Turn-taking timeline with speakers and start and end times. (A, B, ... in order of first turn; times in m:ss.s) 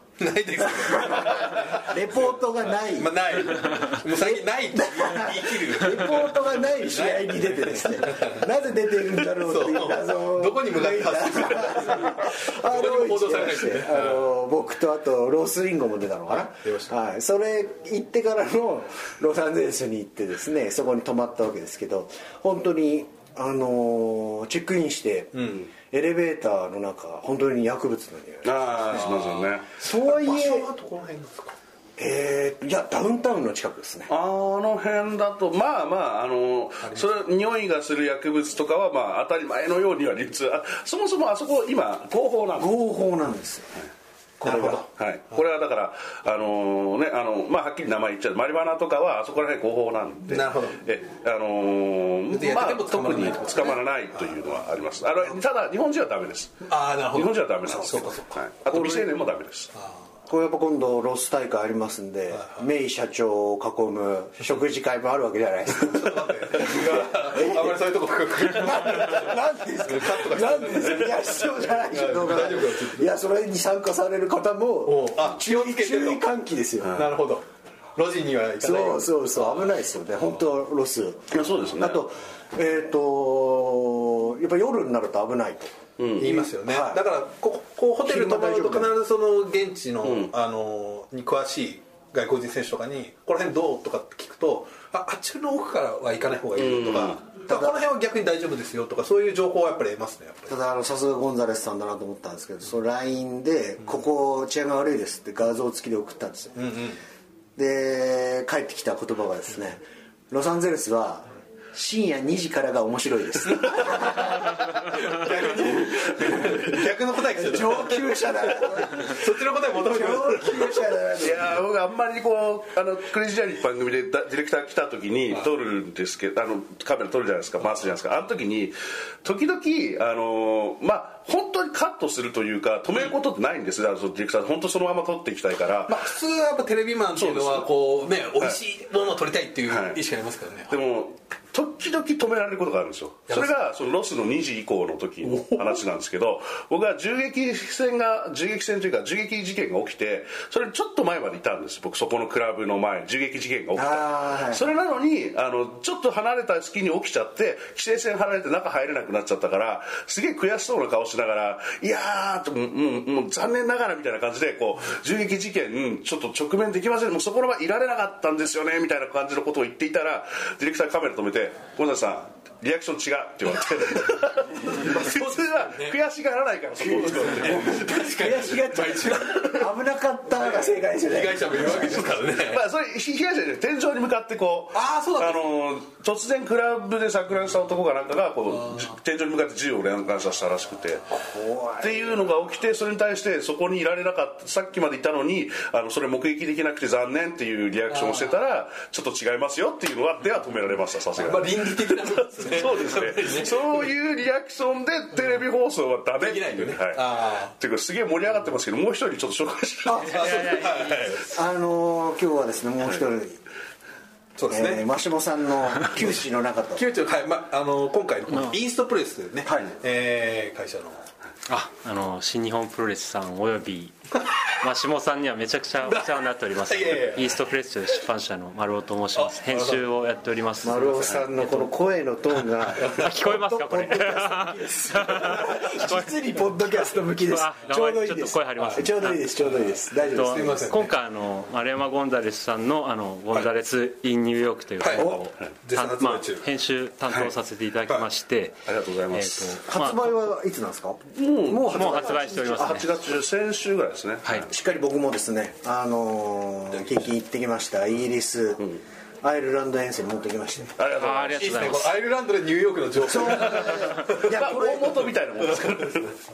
0:00.2-0:01.9 A
0:00.6-0:29.0 B
0:02.7-0:08.5 A
0:09.0-0:14.2 A
0:16.6-0:16.9 A
0:25.4-0:25.7 A
0:28.4-0:29.8 C
0:28.9-0:31.6 A
0:29.8-0:30.7 B
0:32.0-0:34.1 B
0:34.1-0:42.7 C
0:36.8-0:37.1 A
0:42.6-0:43.8 B
0:44.4-0:44.9 A
0:44.4-0:44.8 B
0:45.0-0:59.7 C
0:50.3-0:50.8 A
0:52.3-0:54.3 A
0:56.6-0:58.4 A
0:58.6-0:59.2 B
1:00.3-1:07.9 B
1:02.4-1:02.6 A
1:05.9-1:13.1 A
1:08.4-1:17.0 B
1:14.9-1:16.3 A
1:16.8-1:17.2 C
1:16.9-1:19.8 A
1:18.6-1:25.7 B
1:21.3-1:22.0 C
1:26.0-1:26.5 C
1:26.2-1:40.5 A
1:26.2-1:27.0 B
1:28.0-1:29.0 B
1:30.0-1:30.3 C
1:36.6-1:37.2 C
1:37.5-1:37.8 B
1:40.5-1:46.7 B
1:46.6-1:47.0 A
1:47.6-1:54.8 B
1:53.8-2:00.9 A
1:55.7-1:56.7 B
1:57.3-2:01.6 B
2:01.2-2:16.1 C
2:15.9-2:20.8 A
2:17.2-2:17.7 C
2:19.7-2:20.0 C
2:20.7-2:57.9 C
2:23.3-2:23.6 A
2:25.3-2:25.8 A
2:33.8-2:34.7 B
2:54.6-2:56.0 A
2:56.9-2:59.7 A
2:57.2-3:02.2 B
3:00.3-3:02.6 A
3:02.3-3:11.2 C
3:04.7-3:05.5 A
3:11.1-3:12.3 B
3:11.8-3:30.6 C
3:17.9-3:18.3 A
3:21.1-3:23.9 A
3:26.2-3:27.5 A
3:29.9-3:30.5 B
3:30.1-3:31.3 A
3:30.1-3:31.2 D
3:31.1-3:33.4 B
3:34.4-3:34.8 A
3:34.5-3:36.8 B
3:36.8-3:41.0 A
3:39.4-3:39.7 B
3:41.5-3:44.0 D
3:44.6-3:51.7 D
3:45.9-3:47.4 A
3:49.2-3:49.9 A
3:50.6-4:00.7 B
3:52.8-3:56.1 D
3:57.2-3:59.6 D
3:58.6-3:58.9 A
3:59.9-4:00.9 A
4:00.1-4:08.6 D
4:04.8-4:06.5 A
4:08.7-4:09.6 C
4:09.1-4:10.1 D
4:09.6-4:13.0 B
4:11.2-4:14.5 C
4:11.7-4:12.9 D
4:14.5-4:18.7 B
4:19.2-4:20.8 B
4:20.8-4:21.8 C
4:20.9-4:21.9 D
4:21.2-4:24.3 A
4:23.0-4:25.1 B
4:23.6-4:26.2 C